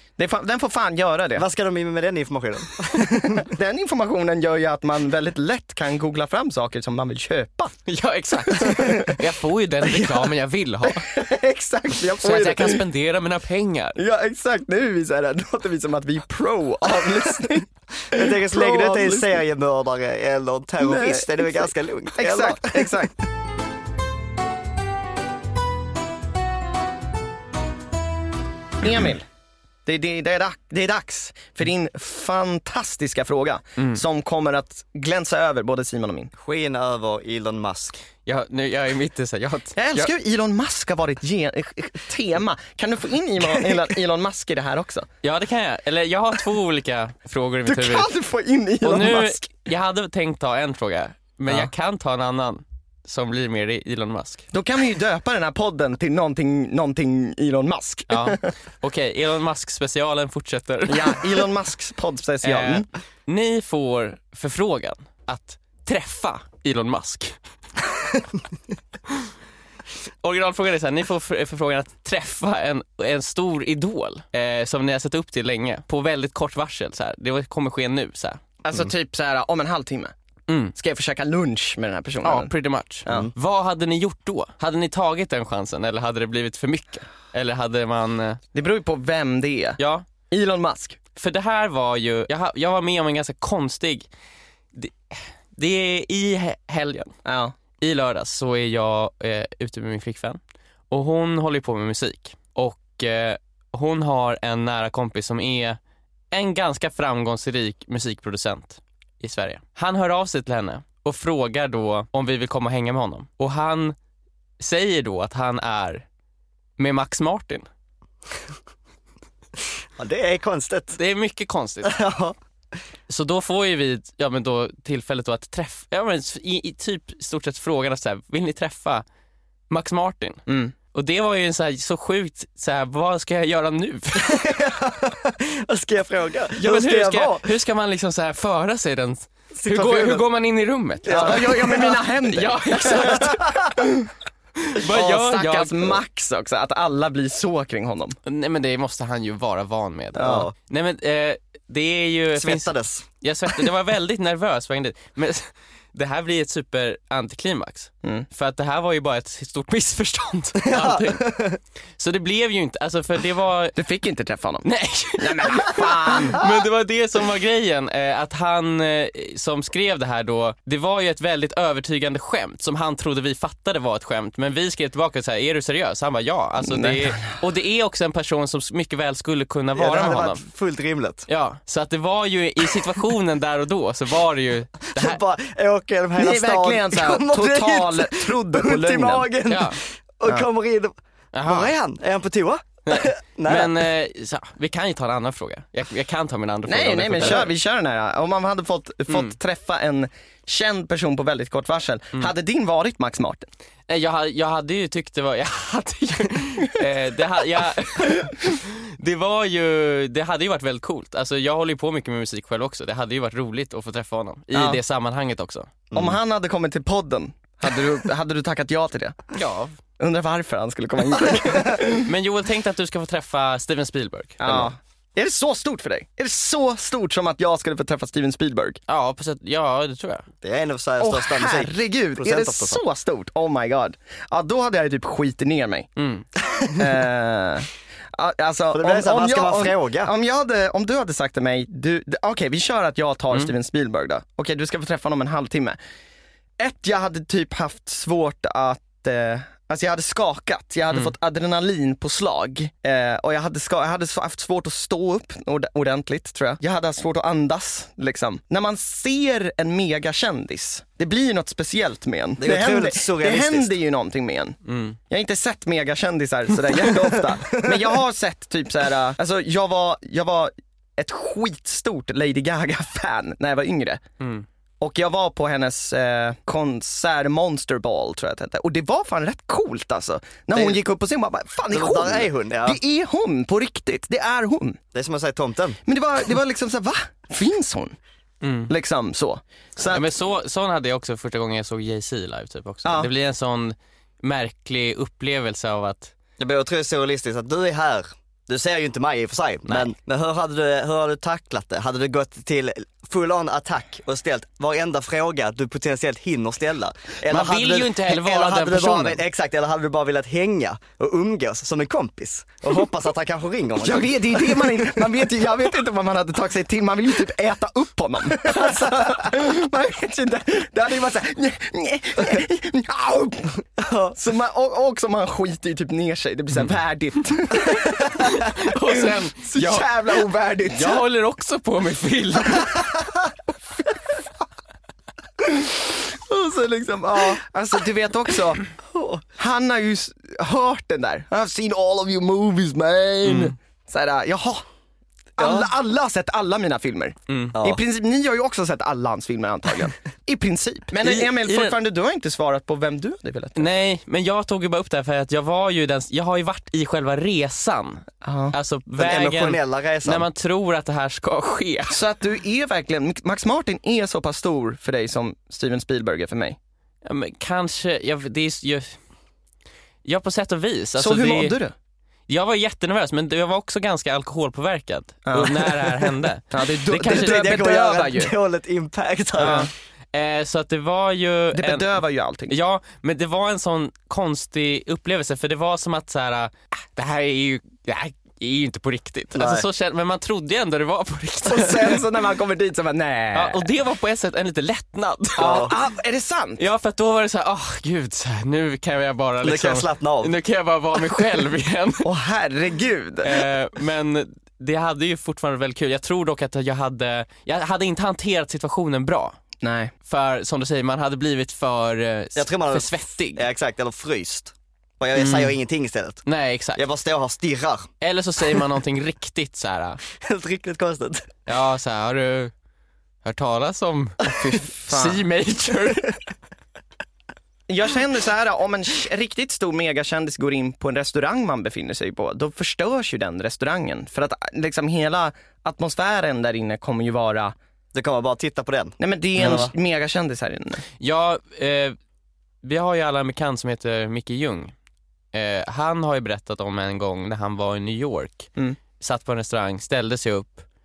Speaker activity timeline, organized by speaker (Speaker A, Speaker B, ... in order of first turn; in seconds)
Speaker A: 0.2-1.5, 3.0-7.8, 8.4-9.2, 10.9-12.8, 14.0-19.4, 20.8-23.1, 28.8-29.2, 29.9-36.3, 39.8-45.1, 47.7-49.5, 54.5-58.5, 60.9-62.9, 78.6-80.1, 80.8-82.5, 88.5-91.0, 97.2-97.5, 130.5-130.7, 141.1-144.1, 144.9-148.2, 150.2-150.5, 163.8-166.4, 176.6-177.3, 186.2-189.3, 196.7-203.5, 214.5-214.8, 215.9-219.2, 220.0-222.1, 224.4-228.8, 231.0-235.9, 236.7-245.8, 246.6-264.6, 265.1-274.0, 274.8-284.8, 285.9-288.0, 288.7-290.1, 313.8-323.6, 324.1-331.0, 335.4-338.6, 339.4-344.6, 345.4-353.7, 358.2-358.6, 361.9-366.6, 371.0-371.7, 375.3-378.3, 379.4-379.7, 381.5-382.6, 391.4-393.7, 395.4-396.6, 402.0-403.4, 409.6-409.9, 424.4-425.2, 427.7-437.6, 439.0-440.8
Speaker B: 1.4-3.5, 16.9-17.4, 18.1-23.1, 36.4-38.0, 120.0-121.0, 121.8-122.4, 134.2-137.5, 139.5-140.3, 141.1-142.0, 150.2-150.5, 152.4-153.1, 160.6-161.6, 179.8-181.3, 184.9-190.9, 191.5-193.8, 215.9-216.2, 230.4-232.8, 238.7-240.1, 262.4-263.7, 266.9-267.9, 280.5-280.8, 281.7-282.8, 284.9-285.8, 296.4-315.2, 318.4-319.2, 323.8-324.2, 338.9-339.2, 345.4-345.7, 359.0-360.3, 377.0-379.7, 389.4-389.6, 395.4-395.7, 399.4-400.3, 412.4-416.2, 416.8-417.9, 420.2-421.3, 437.9-439.7
Speaker C: 7.9-11.1, 12.2-14.0, 38.3-40.1, 45.2-48.1, 48.8-54.5, 58.1-61.4, 62.4-67.3, 70.2-78.4, 80.5-80.8, 82.2-88.4, 89.8-90.1, 91.2-94.1, 94.8-97.1, 97.8-100.4, 100.9-105.8, 106.3-114.0, 114.6-116.0, 116.8-117.7, 121.0-122.0, 123.1-129.1, 129.7-134.5, 136.6-143.6, 144.6-146.0, 148.2-161.3, 162.0-163.8, 164.6-180.4, 181.3-185.2, 189.5-189.8, 191.3-191.7, 192.9-197.5, 199.1-199.3, 203.9-215.7, 219.3-219.8, 222.0-224.7, 228.9-230.3, 236.0-236.3, 264.6-265.0, 274.2-274.5, 288.4-288.7, 289.9-296.1, 307.3-309.2, 328.1-330.0, 330.7-332.8, 343.2-343.5, 347.3-347.6, 351.0-351.8, 353.6-362.0, 367.0-369.0, 370.1-371.6, 372.3-377.7, 379.4-381.9, 382.5-392.0, 393.3-395.7, 396.6-402.1, 403.2-409.4, 410.1-413.4, 415.1-415.6, 416.3-416.8, 418.0-420.0, 421.5-422.5, 423.2-426.2, 441.0-442.0, 442.6-444.7, 445.3-450.6